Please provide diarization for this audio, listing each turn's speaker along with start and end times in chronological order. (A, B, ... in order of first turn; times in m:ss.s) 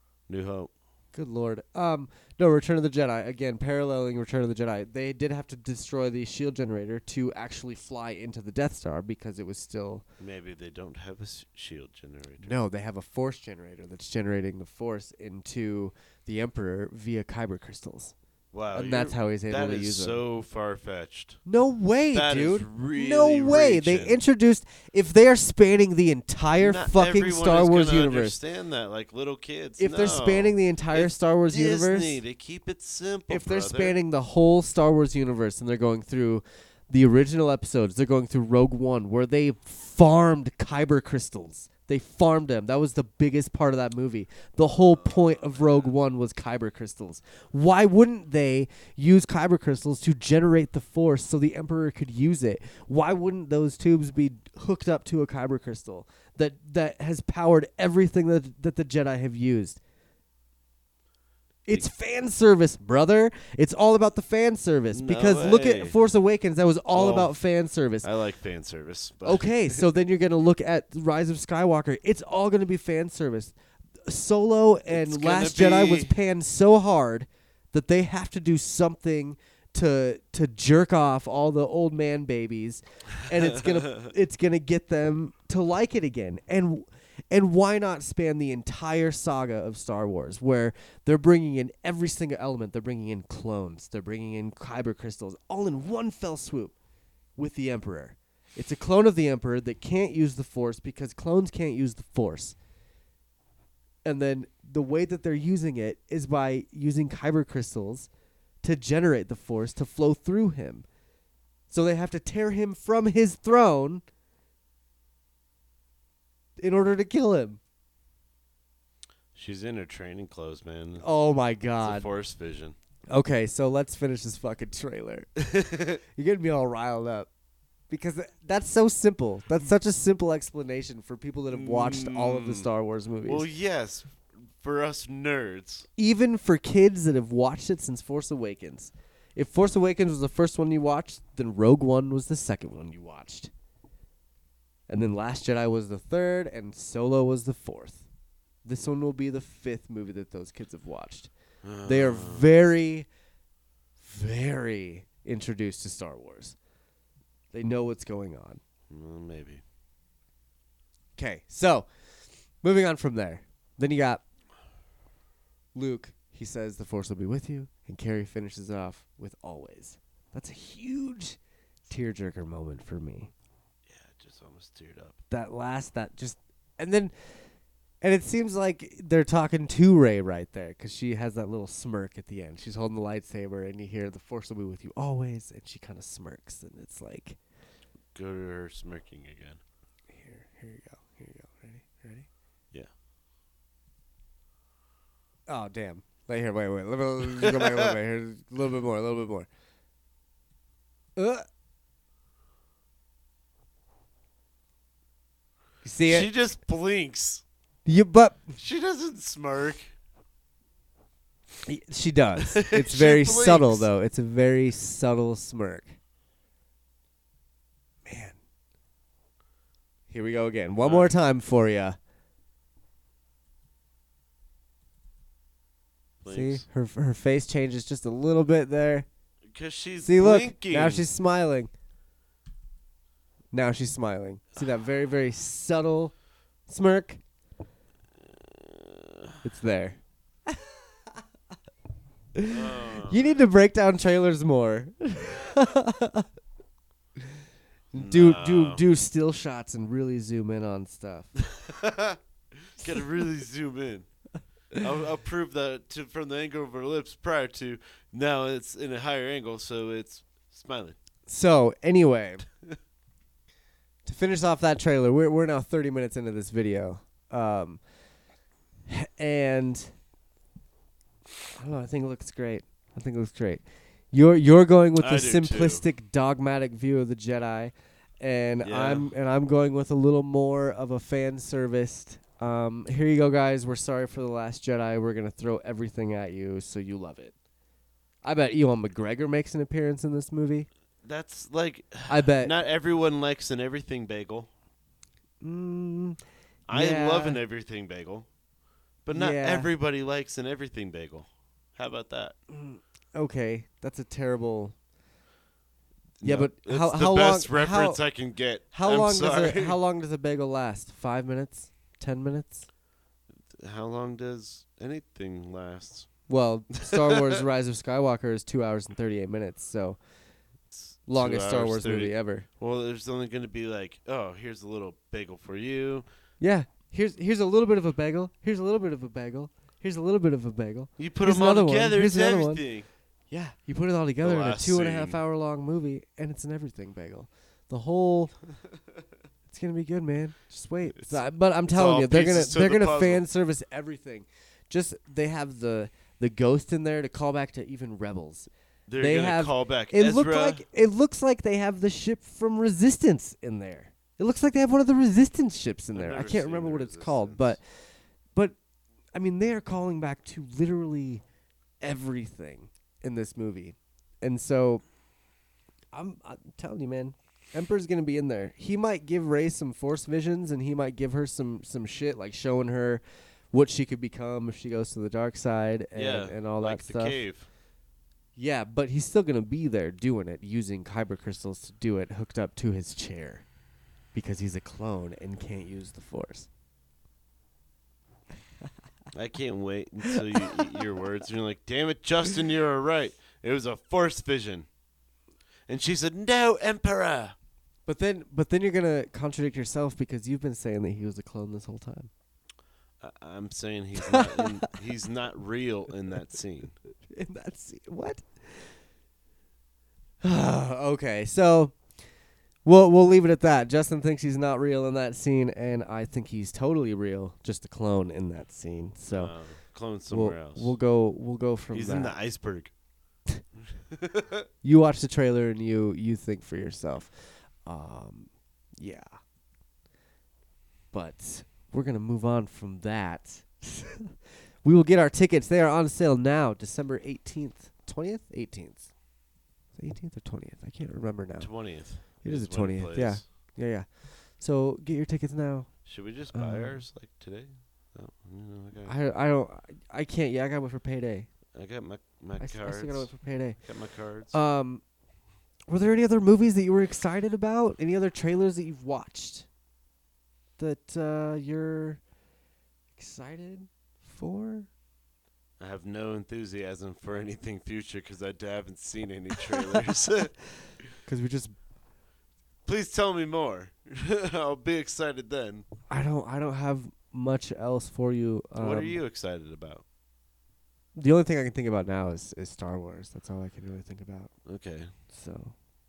0:00.3-0:00.7 A
0:01.1-0:10.0 B
0:10.2-0:12.6 A
0:12.4-0:18.1 B
0:18.5-0:21.4 A
0:18.7-0:20.2 B
0:21.5-0:28.4 B
0:22.1-0:24.2 A
0:26.6-0:34.0 A
0:29.8-0:32.2 B
0:33.3-0:59.8 B
0:44.8-0:45.9 A
1:01.7-1:08.1 B
1:04.9-1:06.0 A
1:06.9-1:07.3 A
1:08.0-1:09.9 A
1:09.2-1:13.6 B
1:14.1-1:36.8 B
1:14.9-1:16.1 A
1:37.4-1:42.6 B
1:44.0-1:48.1 B
1:48.6-1:50.8 B
1:51.7-1:54.0 B
1:56.6-1:57.6 B
1:59.4-2:01.1 A
2:01.0-2:02.1 B
2:01.8-2:02.8 A
2:03.1-2:05.4 B
2:05.4-2:06.0 A
2:06.2-2:07.3 B
2:07.9-2:13.5 B
2:11.5-2:12.7 A
2:13.3-2:15.9 A
2:16.0-2:23.5 B
2:24.9-2:28.1 B
2:28.6-2:31.3 B
2:31.6-2:32.5 A
2:31.8-2:33.1 B
2:34.0-2:36.6 B
2:37.5-2:38.6 B
2:38.9-2:39.6 A
2:41.2-2:41.9 B
2:42.6-2:44.2 B
2:45.8-2:51.4 B
2:51.9-2:53.3 B
2:53.9-2:55.2 A
2:55.3-2:57.1 B
2:58.0-3:07.4 B
3:08.1-3:09.6 A
3:10.1-3:12.3 B
3:15.5-3:19.5 B
3:21.2-3:21.5 B
3:25.8-3:26.3 B
3:26.1-3:27.4 A
3:27.9-3:28.6 B
3:28.6-3:29.9 A
3:31.7-3:36.0 B
3:32.4-3:33.9 A
3:38.0-3:38.4 B
3:40.1-3:42.0 B
3:40.8-3:41.1 A
3:46.2-3:46.6 A
3:46.3-3:49.1 B
3:49.5-3:51.1 A
3:50.0-3:51.7 B
3:53.5-3:56.1 B
3:56.7-3:57.2 B
3:58.7-3:59.3 A
3:59.4-4:00.0 B
4:02.4-4:06.3 B
4:02.5-4:03.4 A
4:07.9-4:11.3 B
4:08.0-4:08.8 A
4:11.4-4:14.1 A
4:14.8-4:21.0 A
4:21.3-4:22.4 B
4:24.0-4:27.8 B
4:28.9-4:29.9 B
4:31.6-4:47.3 B
4:35.0-4:35.8 A
4:38.6-4:39.1 A
4:48.2-4:50.7 B
4:51.0-4:54.5 A
4:52.1-4:52.6 B
4:55.4-4:56.2 B
4:56.7-4:58.3 A
4:56.7-4:57.4 B
4:59.0-5:02.4 A
4:59.1-4:59.7 B
5:02.5-5:04.8 B
5:06.2-5:09.8 A
5:06.2-5:08.0 B
5:08.7-5:12.7 B
5:13.5-5:16.1 A
5:16.3-5:20.0 B
5:16.7-5:17.4 A
5:20.7-5:26.1 A
5:21.1-5:22.5 B
5:26.4-5:32.6 B
5:31.0-5:32.9 A
5:33.3-5:38.3 B
5:34.2-5:35.2 A
5:39.5-5:57.8 B
5:41.0-5:43.2 A
5:48.9-5:50.6 A
5:55.9-5:57.6 A
5:59.2-6:01.2 B
6:01.8-6:04.8 B
6:05.9-6:17.2 B
6:15.9-6:17.5 A
6:18.4-6:23.4 B
6:24.1-6:26.5 B
6:29.1-6:34.7 A
6:30.1-6:30.6 B
6:35.7-6:37.4 A
6:37.9-6:42.1 B
6:43.0-6:46.8 A
6:44.0-6:44.8 B
6:47.1-6:48.8 B
6:50.2-6:51.8 B
6:52.6-6:59.4 B
6:59.2-7:00.8 A
7:00.1-7:02.2 B
7:01.7-7:02.7 A
7:04.0-7:04.4 A
7:04.6-7:09.1 B
7:10.9-7:14.1 B
7:14.6-7:18.9 B
7:19.8-7:25.8 B
7:21.4-7:23.2 A
7:25.9-7:28.9 A
7:26.3-7:26.8 B
7:28.8-7:31.3 B
7:31.6-7:34.4 A
7:32.4-7:33.6 B
7:34.3-7:34.8 B
7:35.7-7:39.5 B
7:40.6-7:42.0 B
7:43.0-7:44.7 B
7:45.6-7:50.4 A
7:51.0-7:51.5 B
7:52.6-7:55.7 A
7:55.9-7:59.0 B
7:58.6-7:59.8 A
8:01.0-8:04.3 B
8:04.5-8:04.9 A
8:05.1-8:05.5 B